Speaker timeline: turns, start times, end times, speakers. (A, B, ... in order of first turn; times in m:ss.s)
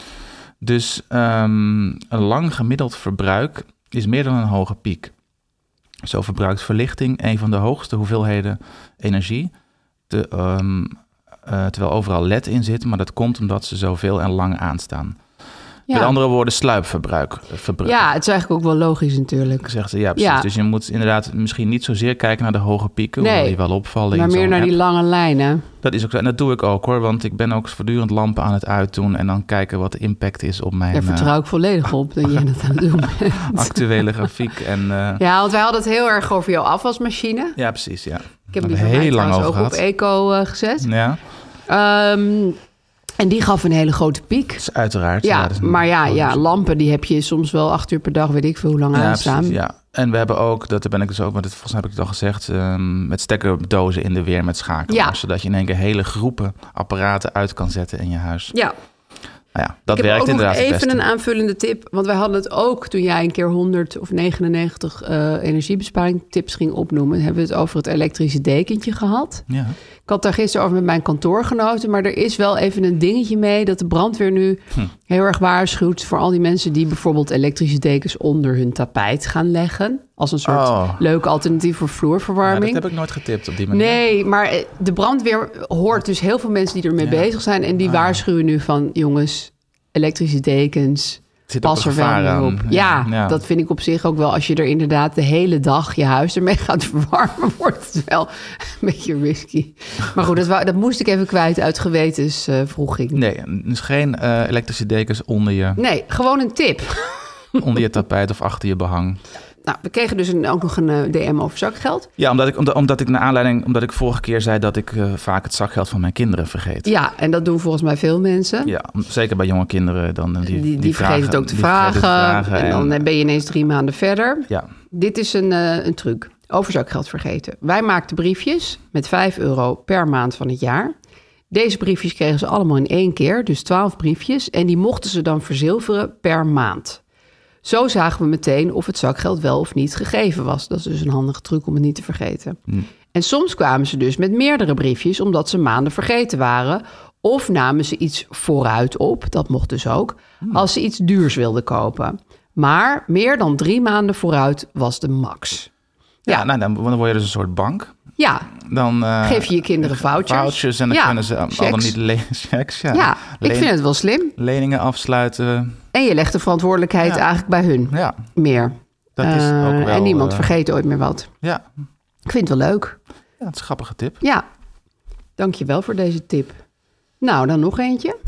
0:00.6-0:05.1 A
0:06.0-0:09.5 A
0:10.1-0:15.2 A
0:15.9-0:16.2 B
0:15.9-0:18.0 A
0:17.8-0:20.5 B
0:19.6-0:24.7 A
0:23.2-0:23.6 B
0:24.1-0:25.7 B
0:25.8-0:31.3 A
0:30.9-0:33.8 B
0:33.0-0:35.2 A
0:35.2-0:37.6 B
0:37.6-0:39.8 A
0:38.5-0:40.9 B
0:40.8-0:41.2 A
0:41.7-0:42.6 B
0:43.2-0:44.6 B
0:44.6-0:46.4 A
0:45.2-0:49.6 B
0:48.9-0:58.5 A
0:54.9-0:55.2 B
0:59.5-1:01.0 A
0:59.9-1:09.5 B
1:09.5-1:09.8 A
1:10.0-1:22.8 B
1:20.5-1:21.0 A
1:22.4-1:24.0 A
1:23.7-1:43.2 B
1:27.8-1:28.2 A
1:31.5-1:33.4 A
1:43.1-1:45.8 A
1:45.8-1:47.6 B
1:47.6-1:49.2 A
1:49.6-1:52.1 B
1:52.2-1:56.9 A
1:56.8-1:58.8 B
1:58.6-2:03.0 A
2:00.5-2:10.9 B
2:11.5-2:17.0 B
2:17.6-2:22.6 B
2:23.1-2:35.7 B
2:36.3-2:38.0 A
2:38.2-2:38.5 B
2:38.5-2:43.7 A
2:39.2-2:42.0 B
2:42.9-2:44.3 B
2:44.4-2:45.8 A
2:45.9-2:51.3 B
2:47.9-2:48.2 A
2:49.2-2:50.5 A
2:52.3-2:53.0 B
2:53.4-2:54.2 A
2:55.4-2:56.6 B
2:57.2-2:58.2 B